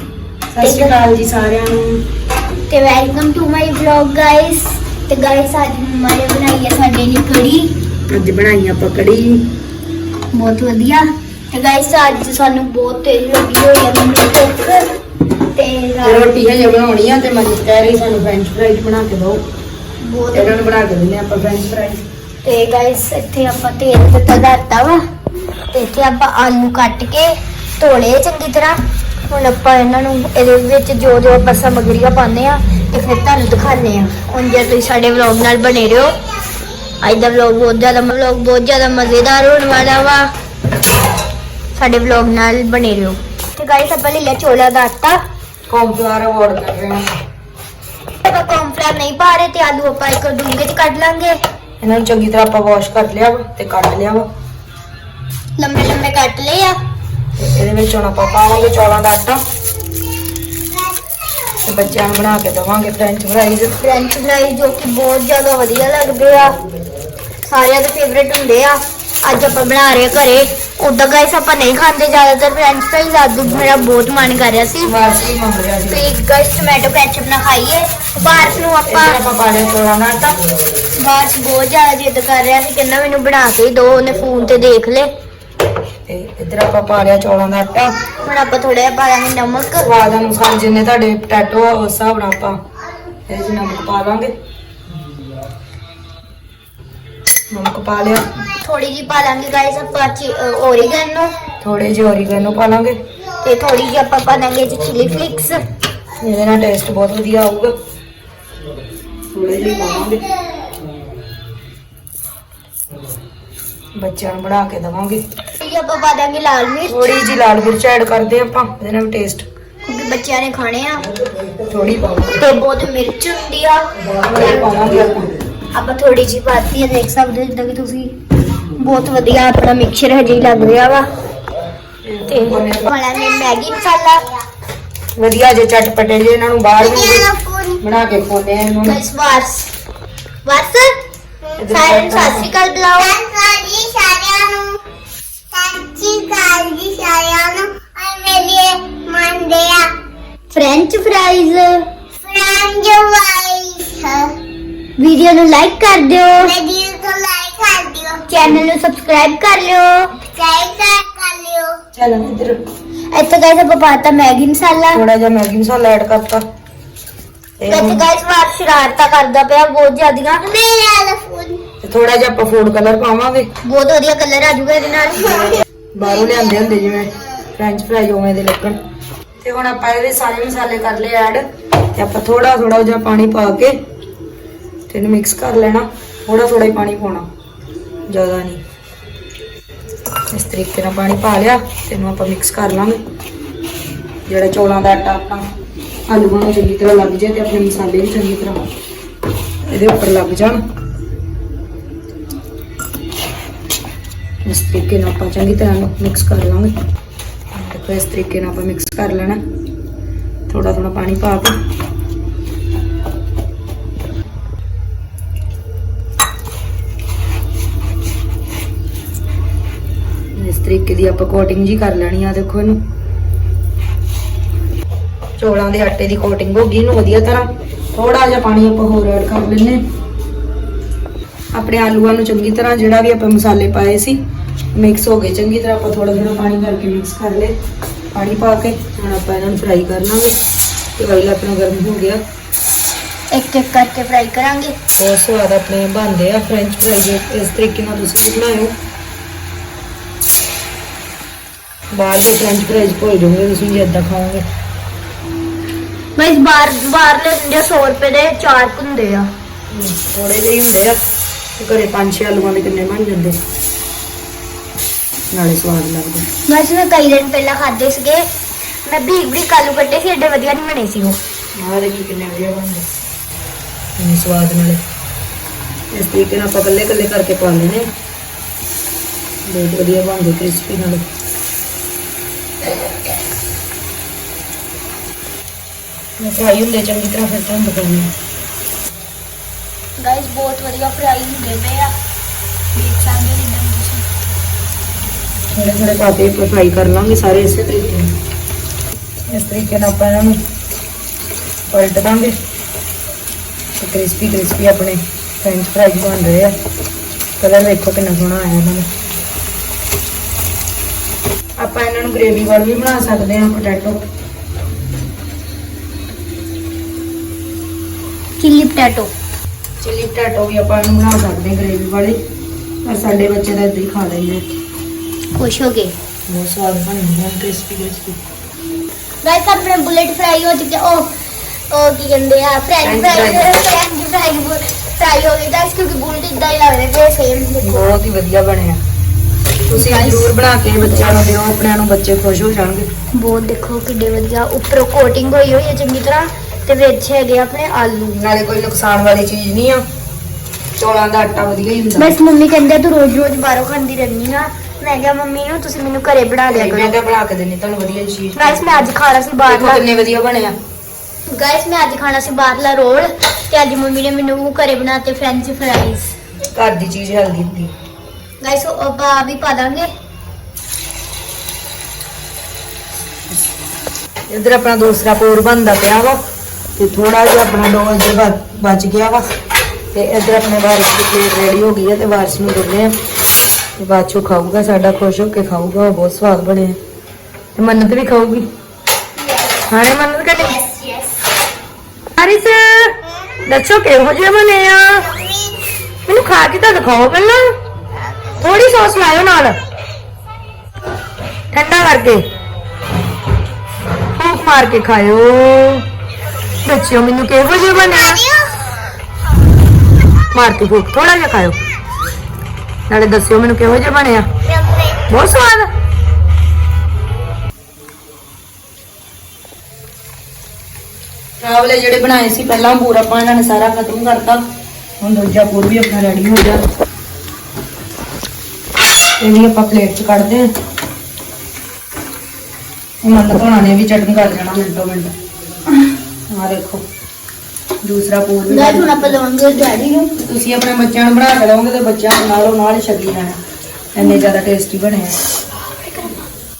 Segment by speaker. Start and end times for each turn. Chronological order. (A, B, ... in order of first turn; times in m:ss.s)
0:00.5-0:02.0 A
0:00.6-0:01.0 B
0:02.7-0:07.7 B
0:08.1-0:09.4 A
0:10.3-0:14.9 B
0:15.5-0:16.4 B
0:16.0-0:19.4 A
0:20.0-0:20.7 B
0:20.3-0:22.0 A
0:22.4-0:25.0 B
0:25.7-0:28.8 B
0:29.3-0:36.1 B
0:37.0-0:40.3 B
0:41.8-0:45.2 B
0:45.7-0:47.1 A
0:48.2-0:51.4 B
0:51.8-0:54.3 A
0:55.6-0:56.8 B
0:57.4-0:59.4 A
1:01.6-1:03.8 A
1:03.8-1:06.6 B
1:07.4-1:14.9 B
1:14.8-1:16.0 A
1:15.9-1:19.2 B
1:18.9-1:20.4 A
1:21.0-1:25.1 B
1:26.1-1:27.9 A
1:28.2-1:29.9 B
1:29.8-1:32.6 A
1:33.3-1:34.3 A
1:37.5-1:38.2 A
1:38.6-1:41.4 B
1:41.6-1:43.0 A
1:43.4-1:45.6 B
1:46.2-1:47.7 A
1:49.3-1:50.3 A
1:54.0-1:55.2 A
1:55.6-1:57.1 B
1:56.9-1:59.5 A
1:59.9-2:01.1 B
2:01.4-2:02.4 A
2:02.4-2:03.9 B
2:04.0-2:05.3 A
2:05.7-2:08.1 B
2:08.8-2:11.1 B
2:12.0-2:12.9 A
2:12.3-2:14.2 B
2:15.2-2:19.0 A
2:17.0-2:17.8 C
2:18.8-2:19.7 B
2:20.4-2:21.0 B
2:21.6-2:22.5 A
2:21.7-2:23.2 B
2:23.2-2:24.8 C
2:25.5-2:29.9 C
2:30.5-2:31.9 B
2:32.2-2:34.4 C
2:35.0-2:36.6 B
2:36.5-2:38.3 C
2:38.3-2:40.2 B
2:40.3-2:41.8 C
2:41.9-2:42.6 A
2:43.1-2:45.0 B
2:44.9-2:46.4 A
2:47.6-2:48.1 A
2:47.7-2:50.5 B
2:50.5-2:51.6 C
2:51.8-2:53.5 A
2:53.6-2:55.6 B
2:55.9-2:58.8 A
2:59.4-3:01.4 A
3:02.0-3:03.8 A
3:04.9-3:07.3 A
3:08.1-3:08.6 A
3:10.3-3:13.0 A
3:14.3-3:15.4 A
3:16.1-3:18.6 A
3:19.7-3:20.6 A
3:24.4-3:26.7 A
3:27.5-3:29.4 A
3:30.5-3:31.6 A
3:40.4-3:42.8 A
3:45.4-3:49.8 A
3:51.6-3:54.2 A
3:54.7-3:57.6 A
3:58.1-4:00.4 A
4:01.0-4:02.2 A
4:03.3-4:04.8 B
4:05.0-4:08.8 A
4:11.9-4:14.4 A
4:16.2-4:19.3 B
4:19.7-4:21.0 A
4:21.6-4:23.4 A
4:25.3-4:26.3 A
4:26.5-4:28.2 B
4:28.8-4:31.2 B
4:31.6-4:32.8 A
4:34.0-4:34.8 A
4:35.9-4:37.9 A
4:39.5-4:41.0 A
4:46.2-4:48.1 A
4:50.0-4:51.9 B
4:52.7-4:54.0 B
4:55.5-4:58.2 A
4:59.3-5:00.4 A
5:01.7-5:02.4 A
5:03.8-5:06.6 A
5:07.4-5:08.9 A
5:11.6-5:14.0 A
5:18.4-5:19.1 B
5:19.8-5:22.2 A
5:22.8-5:24.4 A
5:25.4-5:26.0 B
5:26.3-5:28.2 A
5:29.2-5:31.1 B
5:31.7-5:37.9 B
5:32.8-5:33.6 A
5:37.6-5:38.8 A
5:39.7-5:42.9 A
5:39.8-5:40.3 B
5:43.2-5:48.2 B
5:48.2-5:49.8 A
5:50.8-5:52.2 A
5:52.0-5:56.9 B
5:56.5-5:58.9 A
5:58.4-5:59.8 B
5:59.5-6:00.6 A
6:01.3-6:06.1 B
6:06.5-6:07.7 A
6:08.4-6:09.9 B
6:14.3-6:16.2 A
6:16.8-6:19.2 A
6:19.9-6:22.9 A
6:23.8-6:26.8 A
6:27.6-6:28.5 A
6:29.7-6:30.6 A
6:30.7-6:31.1 B
6:32.2-6:35.1 A
6:36.1-6:37.5 A
6:38.4-6:39.6 A
6:41.5-6:42.2 A
6:44.2-6:45.8 A
6:46.6-6:48.4 A
6:50.3-6:51.6 A
6:52.9-6:54.3 A
6:55.1-6:55.7 A
7:01.4-7:04.4 A
7:05.0-7:06.6 A
7:09.2-7:10.5 A
7:13.0-7:15.1 A
7:16.3-7:16.8 A
7:17.8-7:19.2 A
7:18.5-7:20.2 B
7:20.2-7:23.4 A
7:23.9-7:25.2 A
7:25.8-7:26.2 B